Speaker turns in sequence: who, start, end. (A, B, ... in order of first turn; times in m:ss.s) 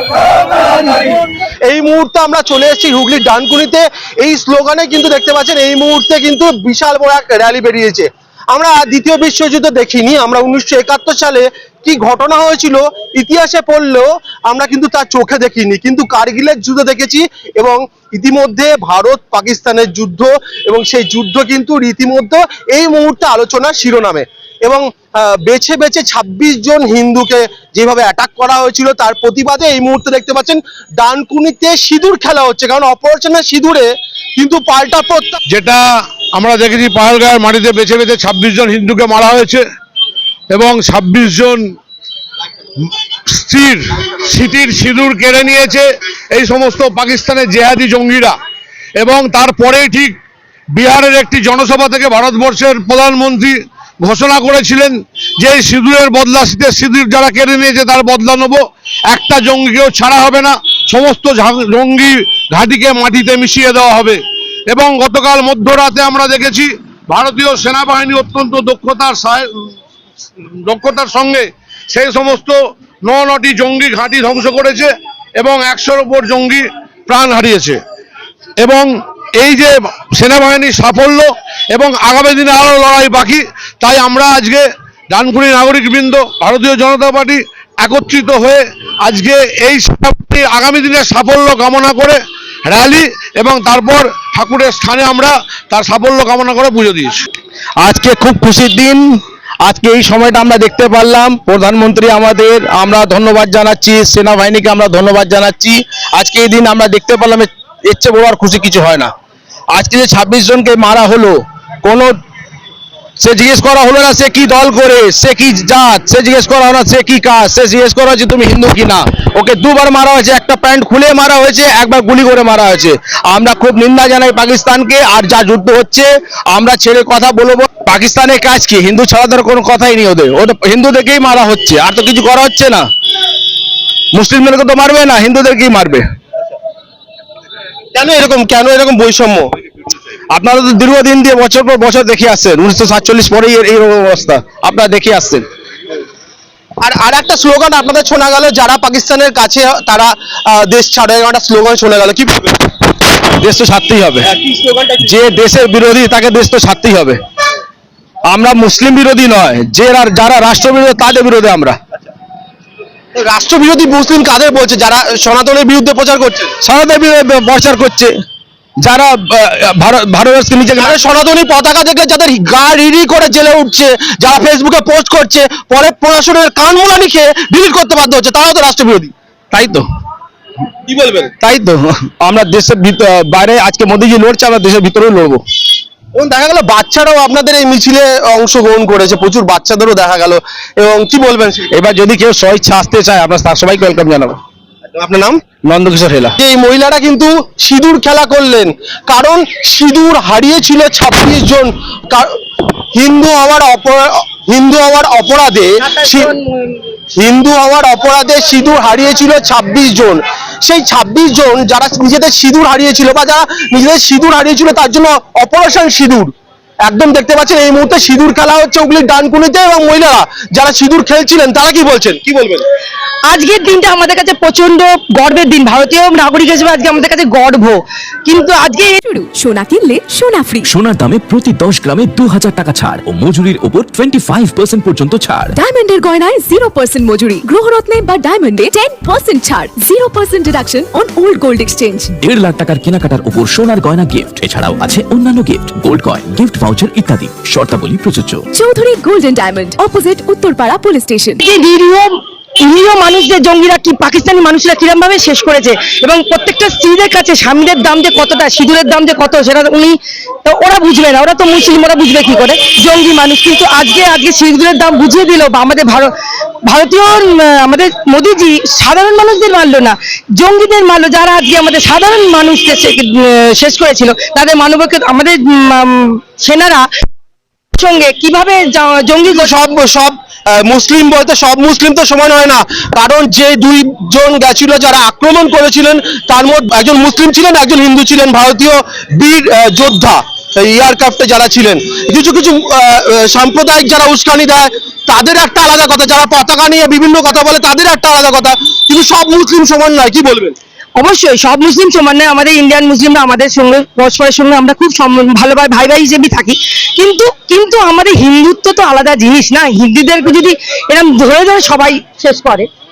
0:01.7-0:35.4 A
0:35.5-0:35.8 B
0:36.3-0:39.6 B
0:40.5-0:41.6 B
0:43.3-0:48.4 B
0:49.0-0:50.2 B
0:50.7-1:09.5 B
1:10.6-1:17.8 B
1:18.6-1:37.2 B
1:37.8-1:39.0 C
1:39.6-1:49.1 C
1:49.7-1:52.1 C
1:53.2-2:12.8 C
2:14.1-2:16.0 C
2:17.9-2:19.5 A
2:20.3-2:25.4 C
2:26.8-2:32.6 A
2:33.4-2:34.3 C
2:34.4-2:35.0 A
2:35.0-2:37.2 C
2:38.3-2:41.8 C
2:43.2-2:46.5 A
2:46.6-2:48.1 C
2:48.8-2:51.0 C
2:50.8-2:59.1 A
2:59.5-2:59.8 C
3:00.9-3:01.3 A
3:01.4-3:05.4 C
3:06.2-3:11.7 A
3:11.7-3:14.4 C
3:14.9-3:15.4 A
3:15.7-3:16.3 C
3:16.4-3:22.3 A
3:22.9-3:26.3 A
3:25.8-3:26.8 D
3:27.2-3:36.3 A
3:36.8-3:42.6 A
3:43.3-3:49.0 D
3:49.0-3:50.8 E
3:50.7-3:55.5 F
3:55.5-4:02.2 E
4:02.2-4:08.4 F
4:08.5-4:11.4 E
4:11.4-4:12.1 D
4:12.6-4:26.1 D
4:26.7-4:36.8 D
4:37.7-4:39.5 D
4:39.3-5:00.6 A
5:01.0-5:12.7 D